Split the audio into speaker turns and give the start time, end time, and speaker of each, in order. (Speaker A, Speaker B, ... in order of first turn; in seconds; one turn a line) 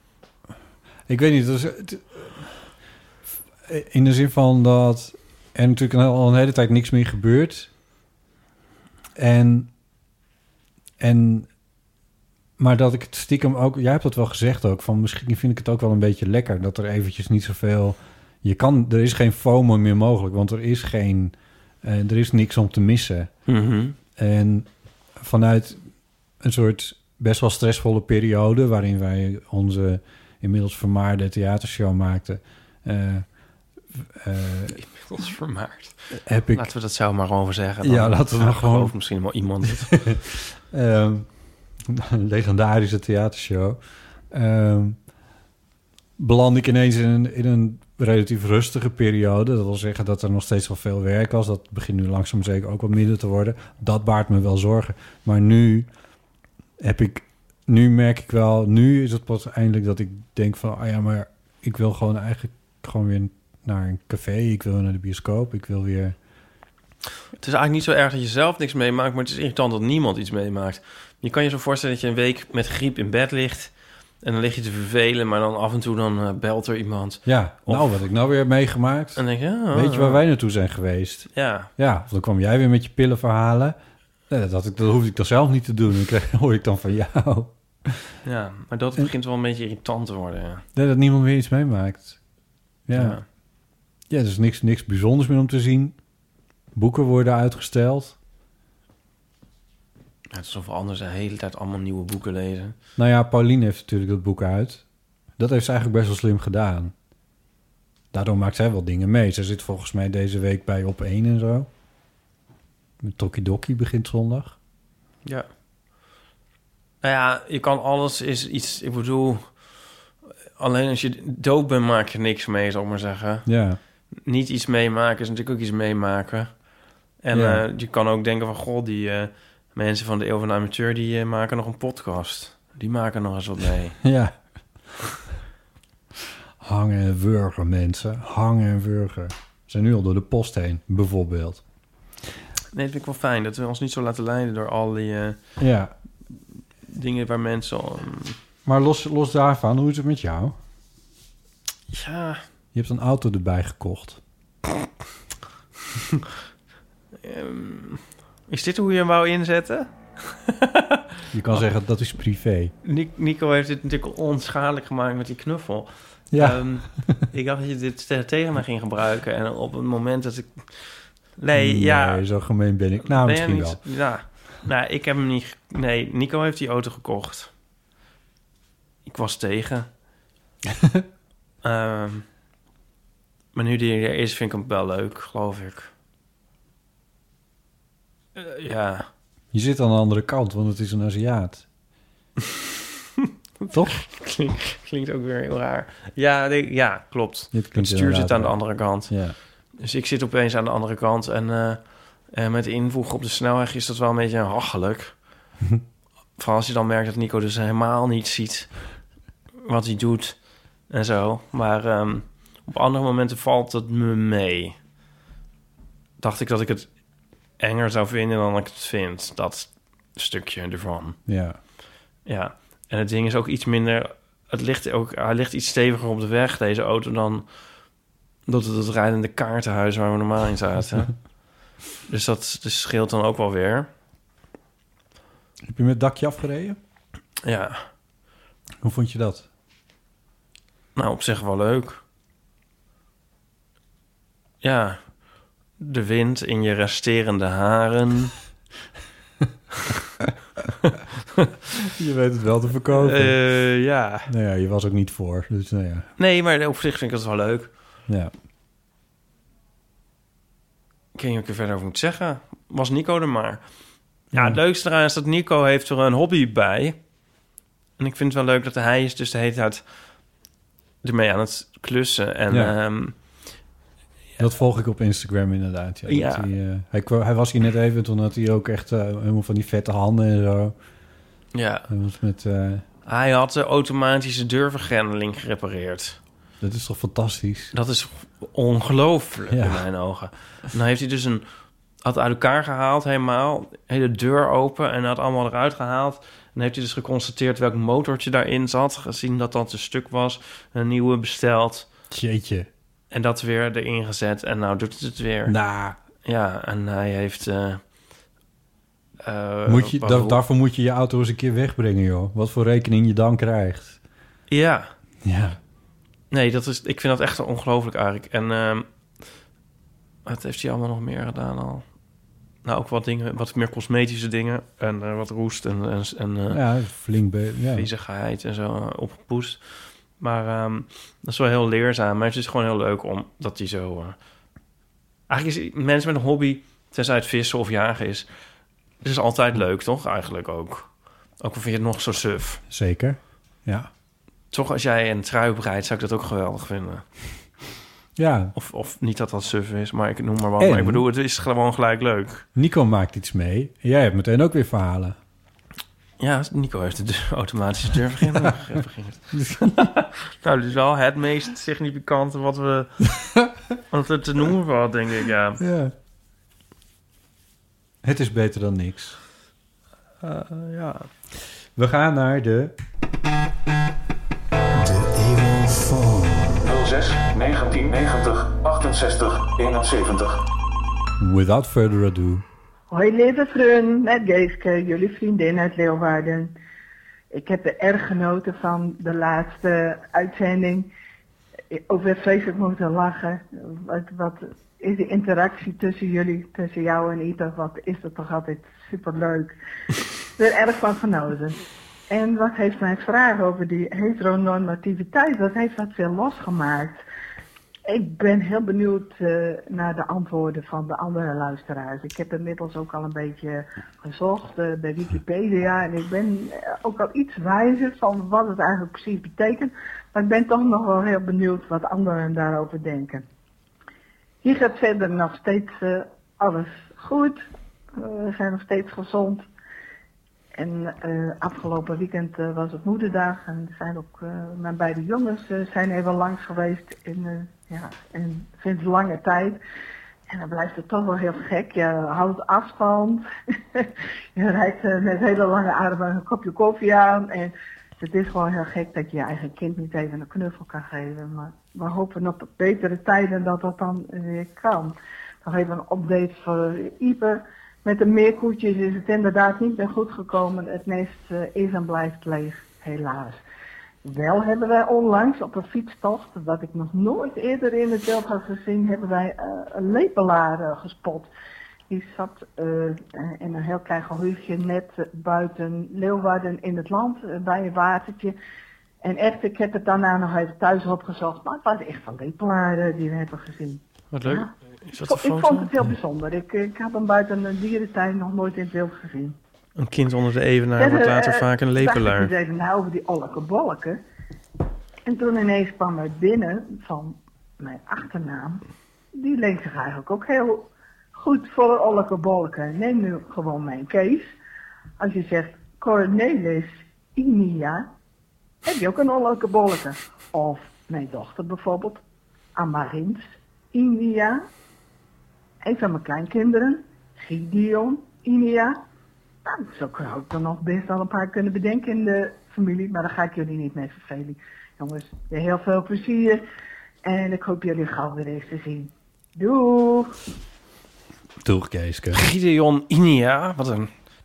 Speaker A: 1.1-2.7
Speaker A: 3.7-7.7
Speaker A: 9.2-9.7
Speaker A: 11.0-11.5
Speaker A: 12.6-23.3
Speaker B: 23.5-24.0
Speaker A: 24.2-25.9
Speaker A: 26.4-33.3
Speaker A: 34.0-34.8
Speaker B: 34.8-40.1
Speaker A: 36.2-36.7
Speaker A: 37.8-38.9
Speaker A: 39.7-41.3
Speaker A: 41.9-43.8
Speaker A: 44.3-45.0
Speaker A: 46.2-55.9
Speaker A: 56.8-66.2
Speaker B: 67.4-77.9
Speaker A: 77.3-83.8
Speaker B: 79.2-80.2
Speaker B: 81.3-81.7
Speaker A: 84.3-88.1
Speaker B: 88.2-90.6
Speaker A: 90.8-92.2
Speaker A: 92.9-93.2
Speaker B: 92.9-93.2
Speaker A: 94.1-96.0
Speaker A: 96.8-98.2
Speaker B: 100.3-102.8
Speaker A: 103.0-104.8
Speaker A: 105.4-106.9
Speaker A: 108.1-111.7
Speaker A: 113.0-114.6
Speaker B: 117.0-119.8
Speaker B: 120.6-123.5
Speaker A: 123.5-123.8
Speaker B: 124.2-126.7
Speaker B: 127.2-134.0
Speaker A: 127.3-127.6
Speaker A: 134.0-134.3
Speaker A: 136.6-141.6
Speaker B: 142.7-145.4
Speaker A: 145.6-145.9
Speaker B: 146.9-148.4
Speaker A: 148.7-150.6
Speaker B: 151.9-152.4
Speaker A: 152.7-154.2
Speaker B: 157.2-161.0
Speaker A: 161.3-162.7
Speaker B: 162.8-172.3
Speaker A: 166.3-167.2
Speaker A: 171.5-173.8
Speaker B: 173.0-177.5
Speaker B: 179.1-179.9
Speaker A: 180.7-181.1
Speaker B: 181.6-182.2
Speaker B: 183.5-185.9
Speaker B: 188.4-189.1
Speaker A: 189.5-191.7
Speaker B: 193.7-199.2
Speaker A: 193.7-194.0
Speaker A: 197.5-199.4
Speaker B: 199.8-205.2
Speaker B: 206.4-209.0
Speaker B: 209.6-214.8
Speaker B: 216.2-216.9
Speaker B: 217.6-221.2
Speaker A: 221.3-221.6
Speaker B: 222.3-227.5
Speaker B: 228.5-231.2
Speaker B: 232.1-233.9
Speaker A: 235.7-236.8
Speaker B: 237.4-237.8
Speaker A: 238.8-239.5
Speaker B: 241.0-242.0
Speaker B: 244.6-245.1
Speaker B: 245.8-248.3
Speaker A: 251.9-253.4
Speaker B: 252.9-254.3
Speaker A: 254.3-256.1
Speaker B: 256.2-257.7
Speaker B: 261.1-263.6
Speaker B: 264.3-267.0
Speaker A: 264.3-264.6
Speaker B: 268.0-269.8
Speaker B: 271.0-273.1
Speaker A: 272.5-272.8
Speaker A: 274.4-280.7
Speaker B: 276.1-276.5
Speaker B: 281.5-281.9
Speaker A: 281.9-282.8
Speaker B: 283.1-286.2
Speaker A: 286.6-287.7
Speaker B: 287.7-291.4
Speaker A: 289.5-289.9
Speaker B: 292.0-301.9
Speaker A: 302.1-302.7
Speaker B: 303.1-305.6
Speaker A: 305.5-306.0
Speaker B: 306.2-307.8
Speaker B: 309.2-310.4
Speaker A: 309.7-314.0
Speaker B: 314.5-314.9
Speaker A: 315.2-315.6
Speaker B: 316.3-318.9
Speaker B: 320.3-321.9
Speaker B: 322.6-326.6
Speaker A: 326.5-327.9
Speaker B: 327.7-334.2
Speaker B: 335.3-338.3
Speaker B: 339.0-342.6
Speaker A: 342.7-343.9
Speaker B: 344.5-347.1
Speaker A: 348.2-348.5
Speaker B: 348.6-352.4
Speaker A: 350.6-351.1
Speaker A: 352.6-355.2
Speaker B: 356.2-363.2
Speaker A: 359.3-359.9
Speaker B: 363.9-365.6
Speaker A: 365.6-365.9
Speaker A: 368.0-369.2
Speaker B: 370.2-371.1
Speaker A: 371.8-372.7
Speaker A: 374.7-376.7
Speaker C: 376.8-380.4
Speaker A: 381.2-382.4
Speaker D: 382.9-386.5
Speaker D: 387.3-390.9
Speaker D: 391.7-399.5
Speaker D: 400.4-407.0
Speaker D: 407.9-423.2
Speaker D: 424.4-427.4
Speaker D: 427.9-429.4
Speaker D: 430.6-439.6
Speaker D: 440.3-443.2
Speaker D: 443.8-463.4
Speaker D: 464.0-471.3
Speaker D: 471.9-478.4
Speaker D: 479.0-484.5
Speaker B: 484.1-485.7
Speaker D: 485.0-489.4
Speaker B: 489.8-492.3
Speaker D: 490.8-494.0
Speaker D: 495.1-498.6
Speaker D: 499.1-504.3
Speaker D: 505.0-507.9
Speaker D: 508.7-512.0
Speaker D: 512.6-513.2
Speaker D: 513.7-514.5
Speaker D: 515.6-518.9
Speaker D: 519.5-526.4
Speaker D: 527.0-530.2
Speaker A: 531.4-532.2
Speaker B: 532.1-533.9